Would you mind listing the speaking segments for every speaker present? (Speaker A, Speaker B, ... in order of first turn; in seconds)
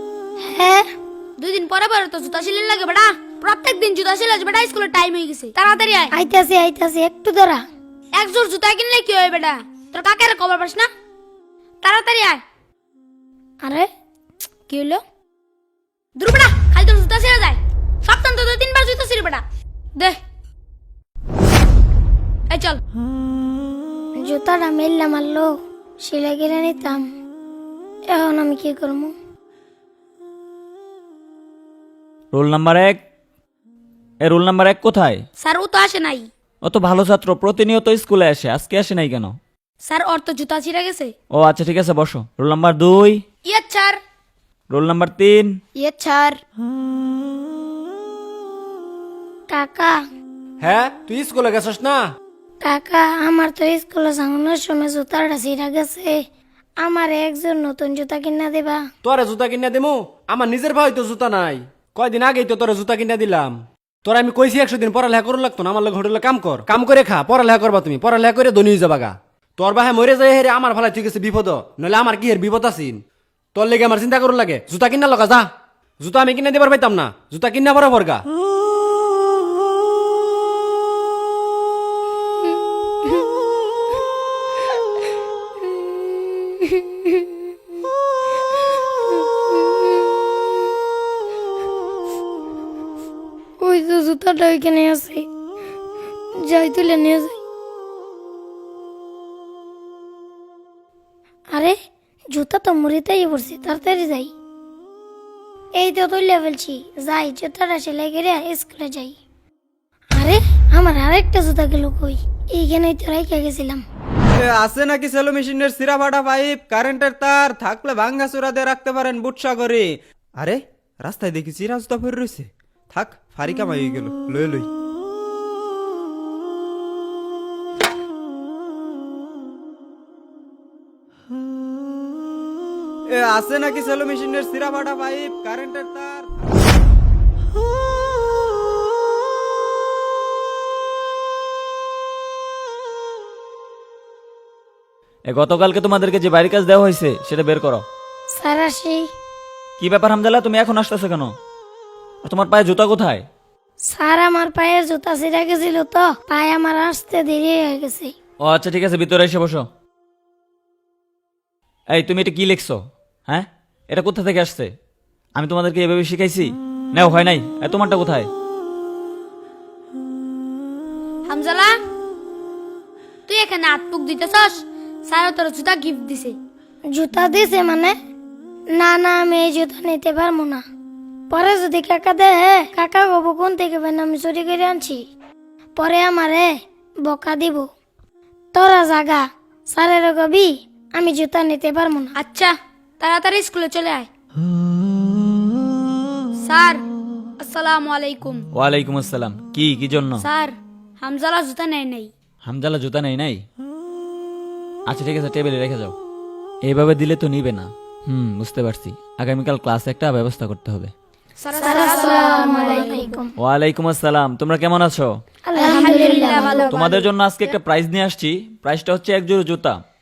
Speaker A: 0.5-0.8, 6.1-7.6, 13.6-13.9, 24.2-25.5, 26.0-27.1, 28.1-29.1, 45.8-46.3, 49.5-50.0, 52.6-56.2, 56.8-58.8, 86.0-87.3, 89.5-90.2, 93.6-95.3, 96.4-97.3, 102.3-104.3, 105.8-109.2, 110.2-113.8, 148.3-149.1, 153.9-158.1, 176.9-177.9, 178.8-180.6, 181.3-185.0, 185.8-186.5, 187.1-187.7, 188.5-192.1, 211.6-213.3, 215.5-216.8
Speaker B: 1.4-6.1, 8.1-10.9, 11.8-12.4, 14.7-15.0, 16.2-19.4, 22.5-22.8, 35.4-36.3, 39.8-41.1, 43.5-44.0, 46.0-46.3, 171.2-171.7, 173.2-176.3, 192.2-194.1, 196.4-196.8, 197.4-198.4, 200.2-202.1, 211.4-213.0, 215.6-217.1
Speaker C: 32.3-33.0, 34.2-35.2, 36.6-39.4, 41.3-43.2, 44.7-45.5, 145.3-147.8, 149.8-151.3, 152.2-153.2, 158.4-159.6, 161.9-164.7, 165.3-168.3, 198.5-200.2, 202.4-203.4, 204.9-205.9, 206.6-210.9, 213.4-215.1, 216.7-219.8
Speaker D: 50.6-52.0, 59.0-73.0, 73.5-75.5, 76.0-78.2
Speaker E: 114.3-124.7, 133.1-136.4